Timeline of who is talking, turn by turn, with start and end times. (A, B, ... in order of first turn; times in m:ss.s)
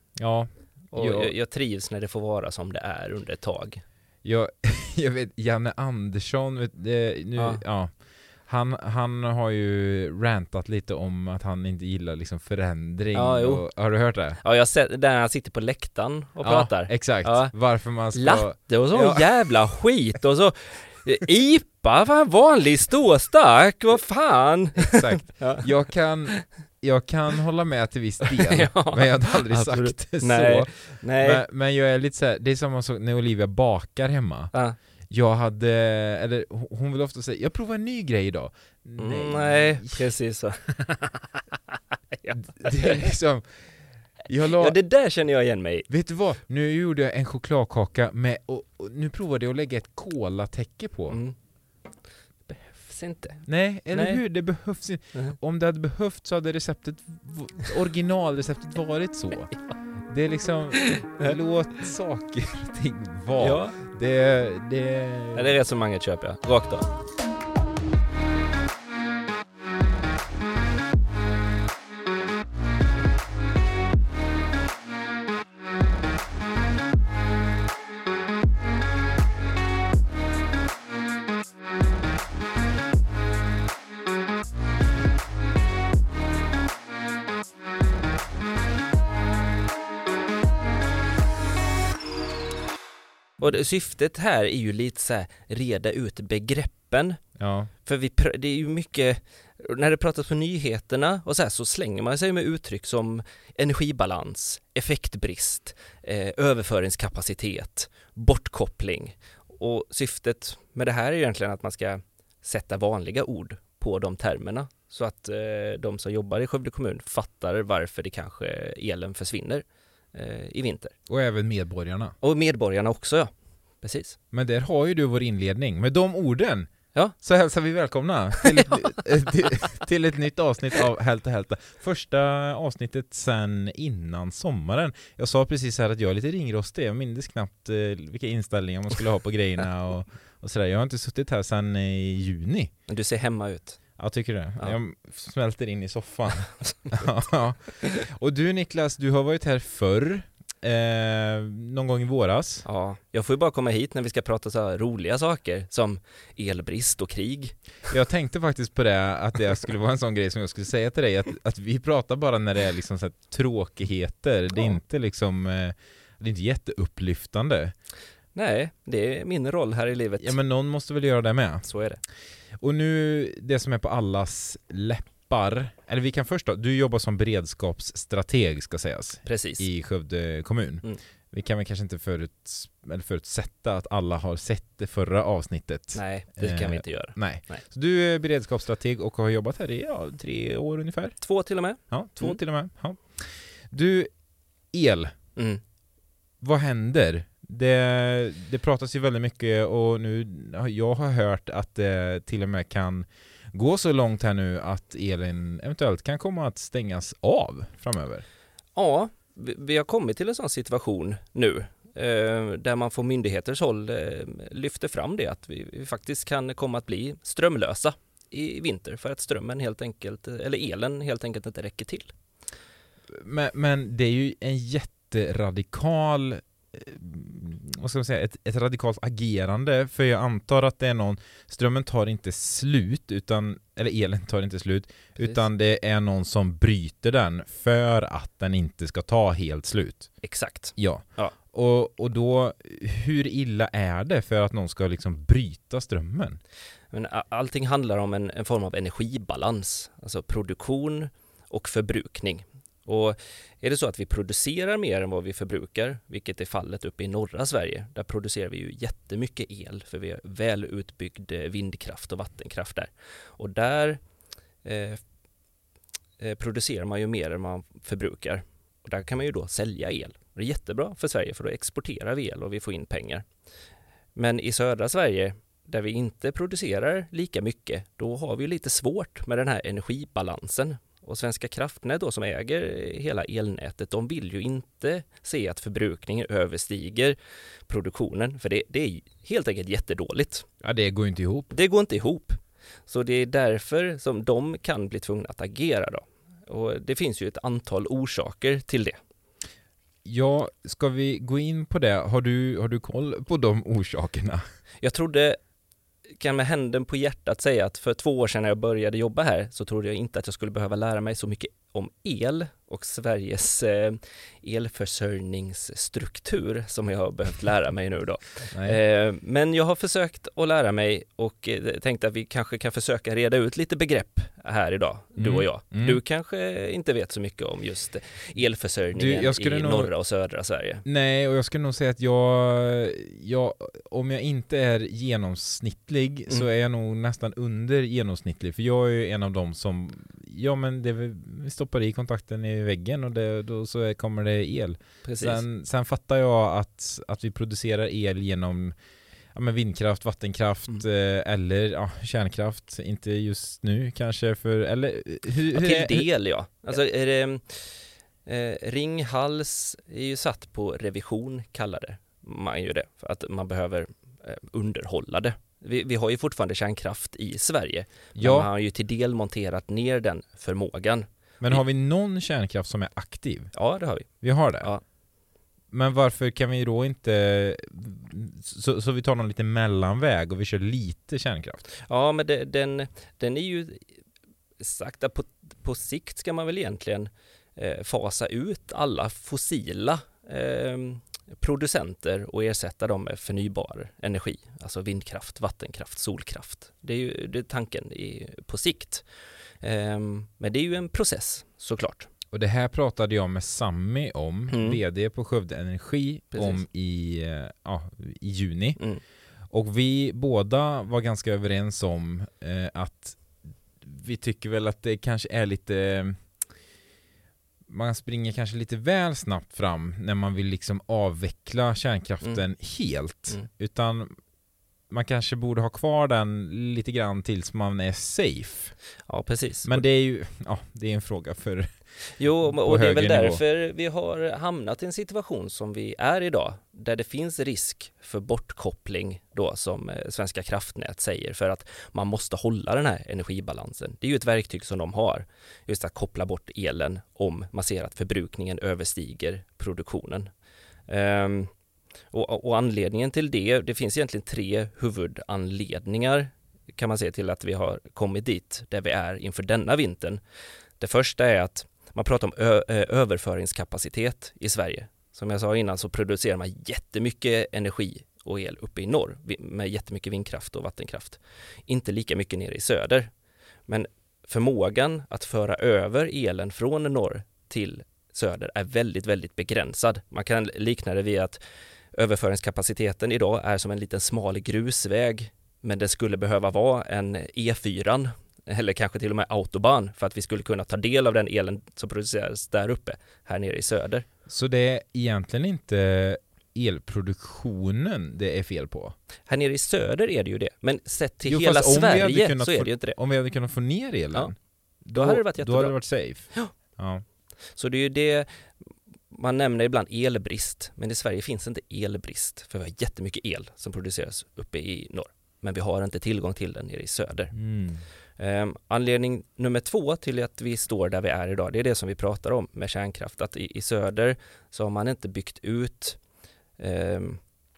0:00.2-0:01.3 A
0:00.9-0:03.8 B
0:04.2-0:07.9 A
0:07.4-0:07.6 B
0:08.4-0:14.4 A
0:13.1-0:13.6 B
0:14.4-0:17.5 B
0:16.4-0:19.3 A
0:18.1-0:25.7 B
0:24.8-0:34.5 A
0:28.2-0:31.4 B
0:35.1-0:40.0 A
0:39.0-0:41.4 B
0:42.1-0:43.1 B
0:42.3-0:44.8 A
0:44.5-0:45.9 B
0:45.9-0:51.2 A
0:51.1-0:51.3 B
0:52.5-0:54.2 B
0:53.4-0:59.5 A
1:00.1-1:05.6 A
1:00.8-1:01.4 B
1:03.4-1:03.8 B
1:05.3-1:06.9 B
1:33.4-1:37.2 B
1:37.4-1:37.7 A
1:37.8-2:00.9 B
2:01.1-2:02.1 A
2:02.2-2:03.3 B
2:03.8-2:04.2 B
2:04.3-2:22.7 A
2:08.4-2:08.7 B
2:22.9-2:23.8 B
2:24.0-2:32.6 A
2:26.6-2:27.1 B
2:32.6-2:37.6 B
2:37.9-2:47.7 A
2:48.3-2:50.4 B
2:50.2-2:51.7 A
2:51.6-2:52.0 B
2:52.6-3:11.2 A
2:59.2-2:59.6 B
3:05.9-3:07.6 B
3:11.2-3:12.4 B
3:11.9-3:14.1 A
3:14.7-3:15.1 A
3:15.4-3:15.6 B
3:16.4-3:28.2 A
3:28.8-3:42.1 B
3:43.1-4:00.1 A
3:55.2-3:55.4 B
4:00.2-4:01.3 B
4:00.8-4:06.4 A
4:06.9-4:24.0 B
4:24.6-4:25.0 B
4:26.2-4:33.2 B
4:34.2-4:47.2 B
4:47.7-4:50.5 B
4:50.6-4:51.5 A
4:51.5-4:59.0 B
5:00.0-5:04.4 A
5:04.8-5:05.4 B
5:06.2-5:30.8 B
5:18.5-5:18.8 A
5:25.2-5:26.0 A
5:28.9-5:29.9 A
5:30.8-5:48.7 A
5:45.0-5:45.4 B
5:49.3-5:56.0 A
5:55.5-6:11.6 B
6:08.2-6:08.5 A
6:11.4-6:13.5 A
6:13.5-6:14.8 B
6:14.2-6:14.7 A
6:15.7-6:21.6 A
6:21.8-6:23.8 B
6:24.6-6:39.0 B
6:39.6-6:42.1 B
6:42.3-6:48.8 A
6:44.5-6:44.8 B
6:46.3-6:46.6 B
6:49.5-6:53.2 A
6:53.8-6:56.2 A
6:57.7-7:04.1 A
7:04.9-7:08.7 A
7:09.1-7:09.8 B
7:09.6-7:11.7 A
7:12.2-7:30.3 B
7:12.4-7:13.4 A
7:30.9-7:31.5 B
7:32.1-7:40.2 B
7:40.8-7:53.1 B
7:53.7-8:01.4 B
8:01.9-8:14.0 B
8:14.3-8:18.9 A
8:19.3-8:23.0 B
8:21.2-8:27.0 A
8:24.9-8:25.8 B
8:27.6-8:28.3 B
8:29.1-8:37.3 B
8:37.3-8:37.8 A
8:38.2-8:46.0 B
8:46.6-8:47.2 B